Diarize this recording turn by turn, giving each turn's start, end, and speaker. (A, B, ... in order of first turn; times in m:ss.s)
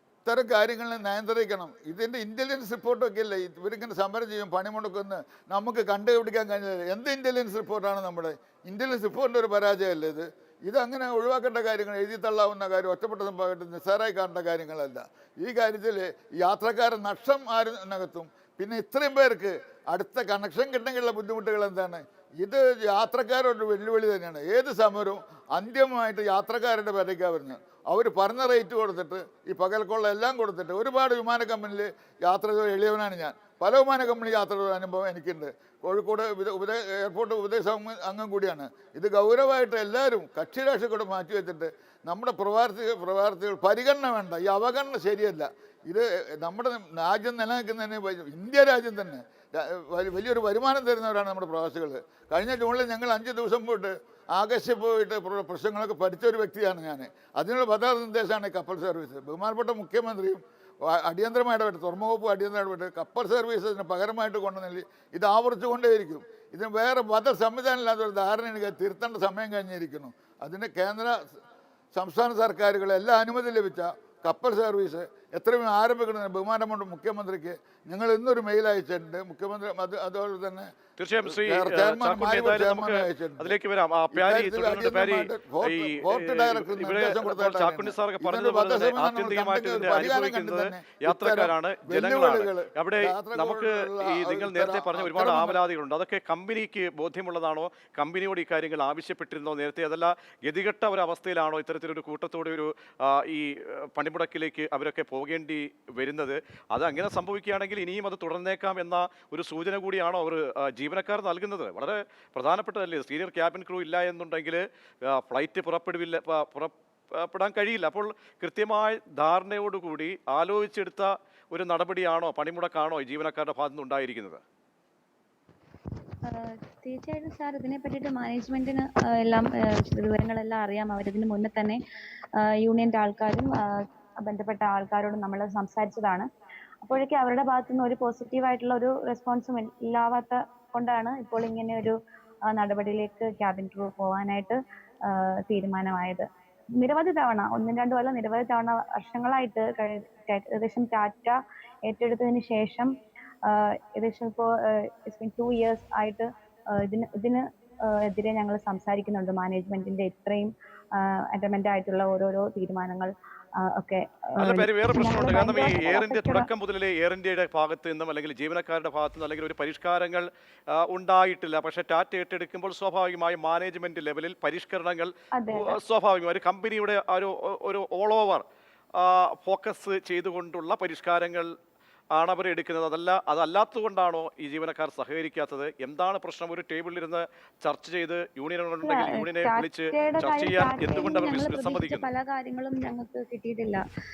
0:00.2-1:11.2 A
1:11.9-1:20.7 A
1:21.0-2:04.4 B
1:21.3-1:23.5 A
1:24.1-1:35.6 A
2:06.3-2:11.8 C
2:12.4-2:13.6 C
2:14.2-2:16.2 C
2:16.8-2:21.9 C
2:22.5-2:26.2 C
2:26.8-2:31.4 C
2:31.9-2:32.9 C
2:33.4-2:46.5 C
2:44.4-2:58.4 B
2:55.4-2:55.8 C
2:59.0-3:01.5 B
3:02.1-3:12.1 B
3:08.8-3:13.8 C